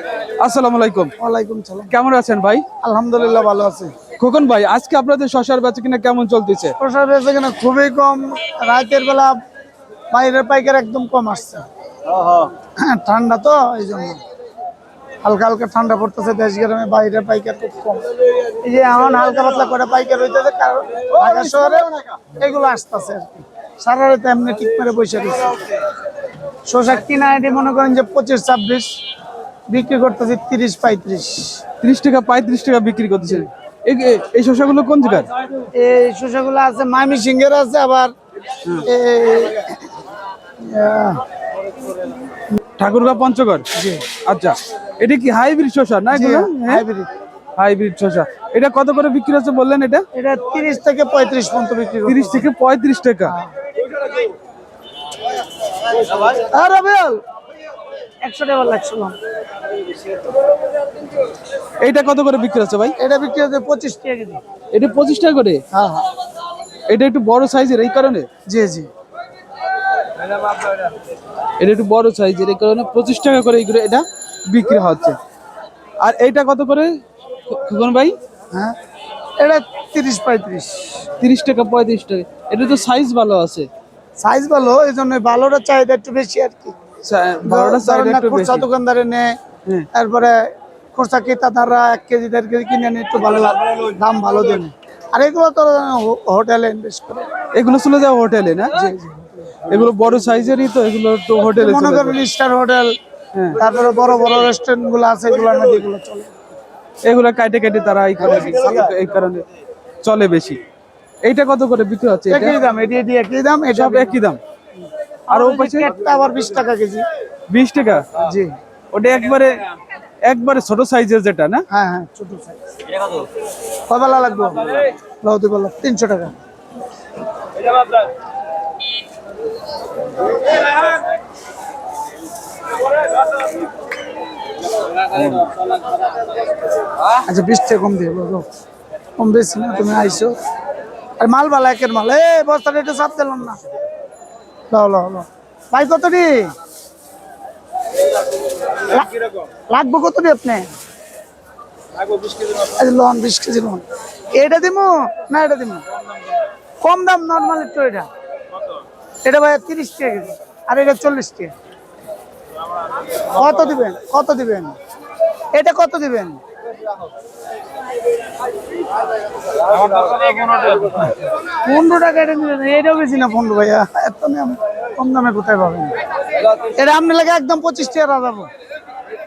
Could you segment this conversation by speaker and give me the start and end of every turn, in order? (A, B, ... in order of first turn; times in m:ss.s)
0:00.4-0:01.1 A
0:01.2-0:01.9 B
0:01.9-0:02.6 A
0:02.8-0:03.9 B
0:04.2-0:06.7 A
0:06.8-0:09.4 B
0:10.1-0:11.6 B
0:12.8-0:14.2 B
0:15.2-0:18.0 B
0:18.6-0:25.6 B
0:26.7-0:29.0 B
0:29.7-0:31.6 B
0:31.8-0:35.3 A
0:35.7-0:38.1 B
0:38.8-0:39.8 B
0:40.6-0:41.2 B
0:42.8-0:46.8 A
0:43.7-0:44.1 B
0:46.1-0:47.1 B
0:47.6-0:50.0 A
0:50.1-0:52.5 B
0:52.0-0:53.3 A
0:56.3-0:57.2 B
0:58.2-0:59.2 B
1:01.8-1:03.0 A
1:03.0-1:04.4 B
1:04.7-1:05.6 A
1:05.7-1:06.1 B
1:06.9-1:08.2 A
1:08.5-1:08.9 B
1:11.6-1:15.2 A
1:16.0-1:16.9 A
1:17.5-1:18.2 A
1:19.4-1:21.1 B
1:21.2-1:23.7 A
1:24.2-1:26.8 B
1:27.0-1:28.7 A
1:27.4-1:29.3 B
1:29.9-1:37.3 B
1:37.5-1:38.9 A
1:38.8-1:39.6 B
1:39.7-1:42.2 A
1:41.6-1:43.0 B
1:43.3-1:43.6 A
1:43.5-1:46.3 B
1:47.0-1:49.4 A
1:48.2-1:48.9 B
1:50.0-1:50.6 A
1:51.2-1:52.6 A
1:52.3-1:54.2 B
1:53.7-1:54.4 A
1:55.3-1:57.0 B
1:55.3-1:55.9 A
1:57.5-1:58.1 A
1:58.2-1:58.5 B
1:58.9-1:59.6 A
2:00.2-2:01.7 A
2:01.7-2:02.6 B
2:03.9-2:06.3 B
2:17.2-2:18.4 B
2:19.2-2:20.3 B
2:21.2-2:23.6 B
2:24.7-2:26.5 B
2:29.7-2:30.7 B
2:32.8-2:33.8 B
2:34.4-2:35.8 B
2:36.8-2:38.1 B
2:39.2-2:41.5 B
2:43.3-2:44.8 B
2:45.5-2:46.4 B
2:51.6-2:55.9 B
2:56.8-2:58.5 B